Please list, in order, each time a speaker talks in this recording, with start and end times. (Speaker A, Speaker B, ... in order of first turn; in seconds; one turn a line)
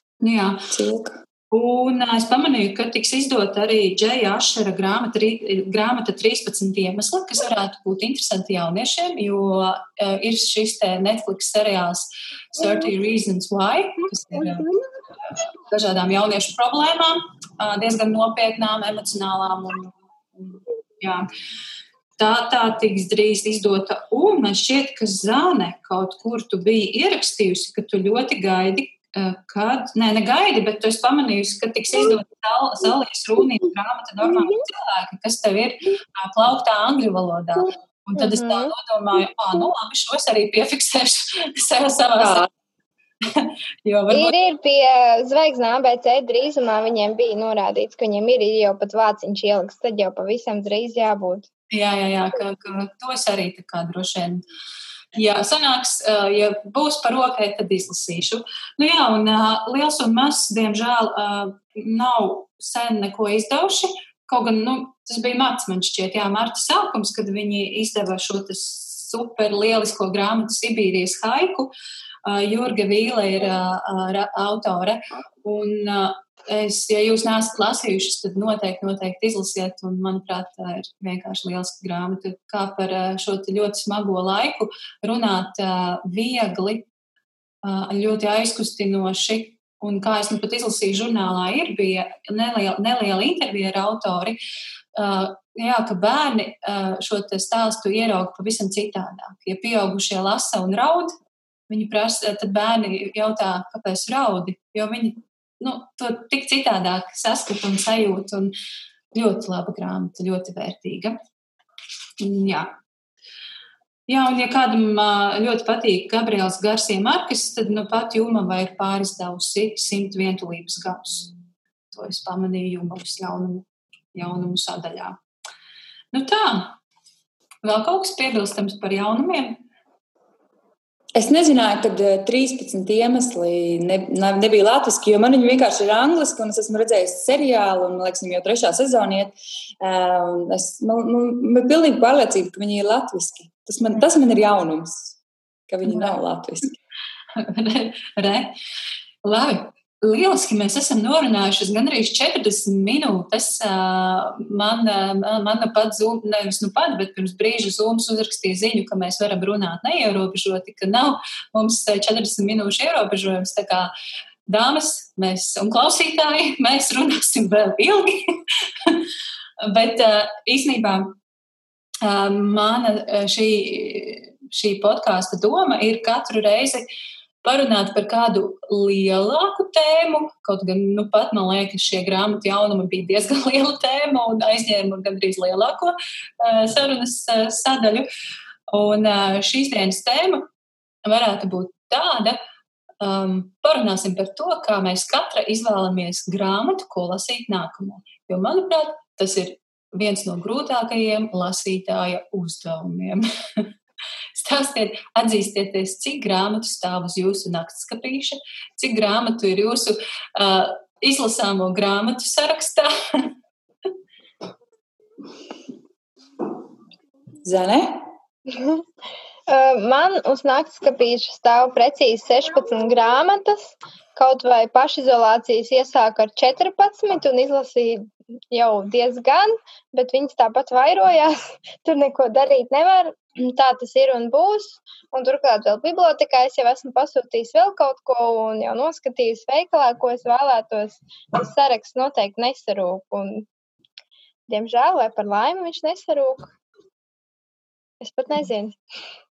Speaker A: 0.2-0.7
Speaker B: 0.7-1.2
Speaker A: 1.5-14.7
Speaker A: 15.7-21.3
Speaker A: 22.2-42.5
Speaker C: 38.2-38.7
Speaker B: 42.2-42.5
Speaker A: 43.2-44.3
Speaker C: 44.1-51.5
Speaker A: 51.7-54.4
Speaker A: 55.1-71.7
Speaker A: 72.2-86.8
Speaker A: 87.6-94.4
Speaker A: 95.0-101.1
Speaker A: 101.7-108.5
Speaker A: 109.1-111.2
Speaker A: 112.2-112.8
Speaker A: 114.1-121.3
Speaker A: 121.9-125.2
Speaker A: 126.1-126.8
Speaker A: 127.6-129.6
Speaker B: 131.2-145.2
Speaker B: 145.7-146.7
Speaker A: 145.8-146.2
Speaker A: 147.4-148.5
Speaker A: 149.2-163.9
Speaker A: 164.5-169.1
Speaker A: 169.6-171.2
Speaker A: 172.0-176.9
Speaker A: 177.4-188.1
Speaker A: 188.7-190.5
Speaker A: 191.1-192.4
Speaker A: 193.0-203.7
Speaker A: 204.3-213.3
Speaker B: 217.4-218.1
Speaker C: 218.5-218.8
Speaker C: 219.5-243.5
Speaker C: 244.5-246.5
Speaker C: 248.0-248.8